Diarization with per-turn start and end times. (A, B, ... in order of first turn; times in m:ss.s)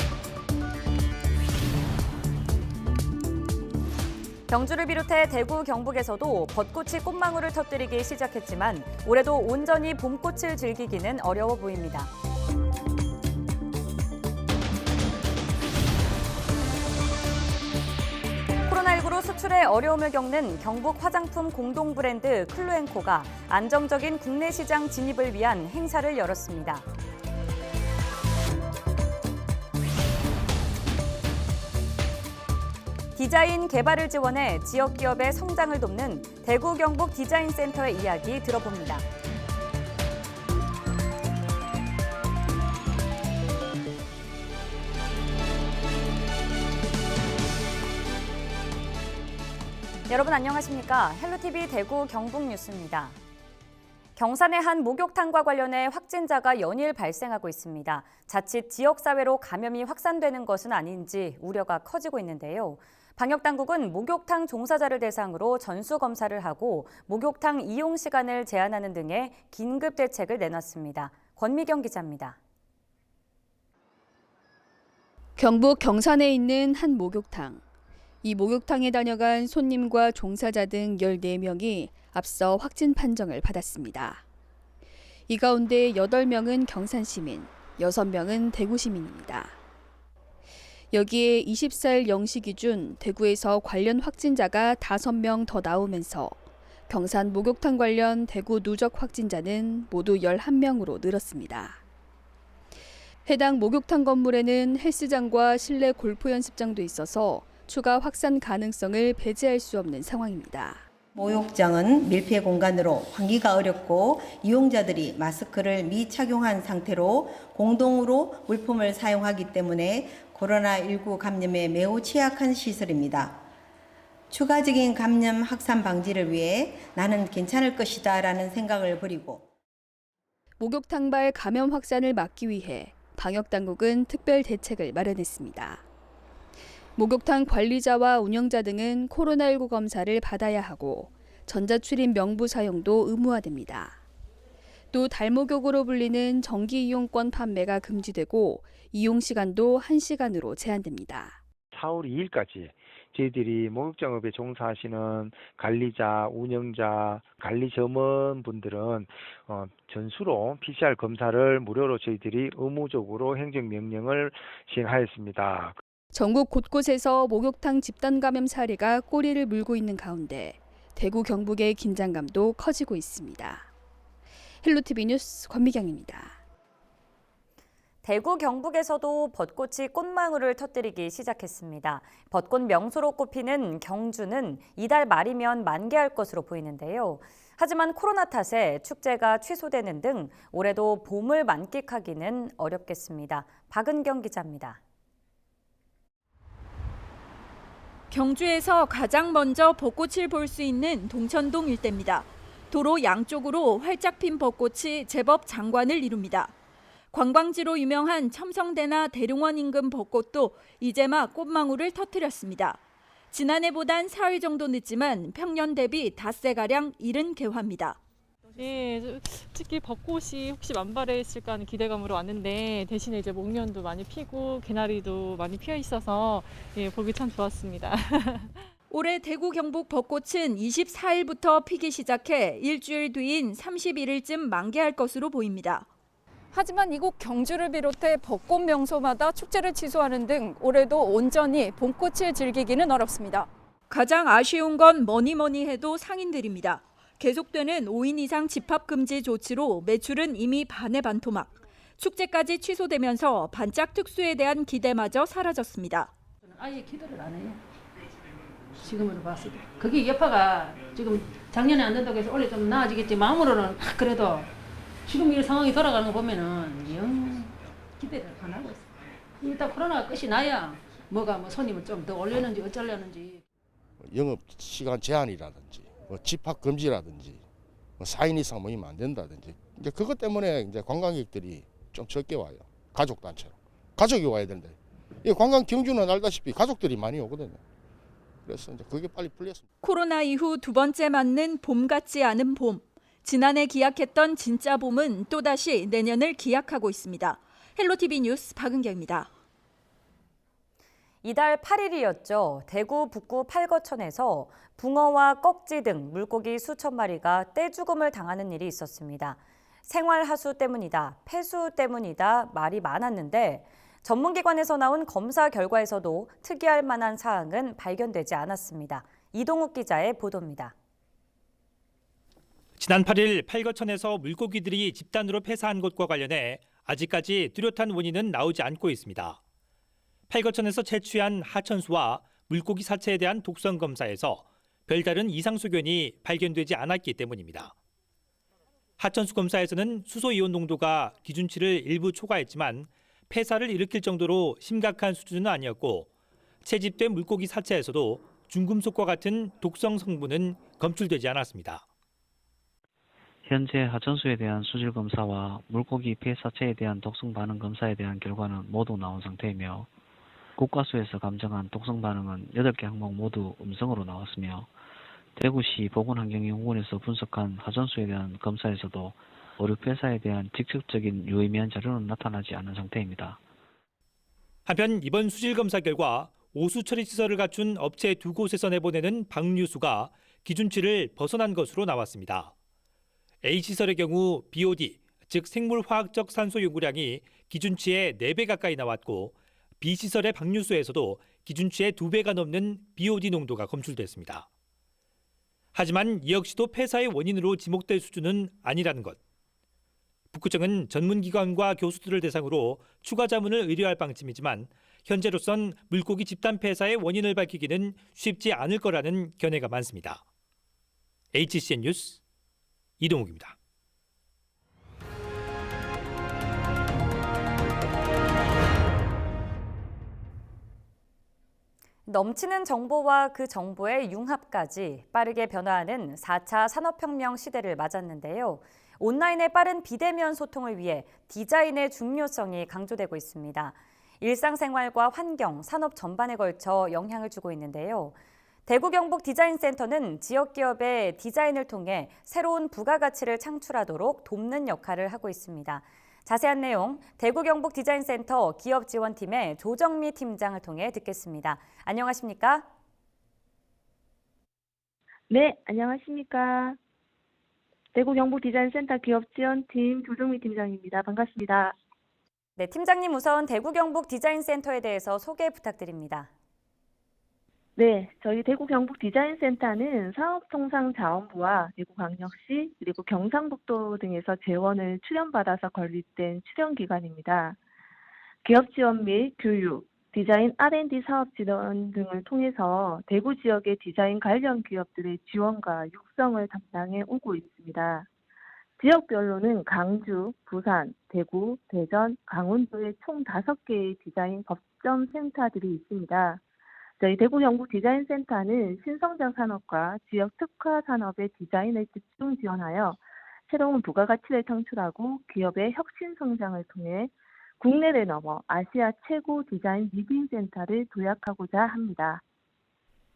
0:04.5-0:12.1 A
0:18.7-0:26.8 A
0:33.2-0:39.1 A
0:50.1-0:53.2 A
0:54.2-1:12.4 A
1:15.4-1:17.6 B
1:18.2-1:24.2 B
1:25.3-1:29.5 B
1:30.9-1:36.4 B
1:36.9-1:41.8 B
1:43.3-1:50.8 B
1:51.1-2:03.4 C
2:04.3-2:09.4 C
2:10.6-2:15.8 B
2:17.0-2:24.0 B
2:24.9-2:31.4 B
2:31.7-2:45.8 D
2:46.1-2:53.7 B
2:54.6-2:56.4 B
2:58.0-3:14.8 A
3:18.1-3:26.5 E
3:27.1-3:32.8 E
3:33.3-3:38.0 E
3:38.6-3:48.5 F
3:48.9-3:55.9 E
3:56.5-4:03.5 G
4:03.9-4:16.1 E
4:16.4-4:17.6 H
4:18.8-4:24.5 H
4:25.1-4:28.9 H
4:29.4-4:33.4 H
4:34.0-4:37.4 I
4:38.0-4:47.6 I
4:48.4-4:49.6 I
4:49.8-4:59.3 E
5:01.2-5:20.7 A
5:22.8-5:29.4 J
5:30.3-5:37.8 J
5:39.0-5:46.1 J
5:46.6-5:51.8 J
5:53.4-5:59.9 K
6:00.6-6:04.7 K
6:05.4-6:13.4 K
6:14.7-6:22.5 J
6:23.4-6:34.5 J
6:35.7-6:39.2 J
6:40.3-6:50.2 J
6:51.3-6:52.2 J
6:53.0-6:53.6 J
7:02.1-7:18.2 A
7:18.7-7:32.7 A
7:35.3-7:36.8 L
7:37.9-7:41.8 L
7:42.6-7:46.3 A
7:47.8-7:57.6 L
7:58.4-8:08.1 L
8:08.8-8:16.4 L
8:17.0-8:32.2 L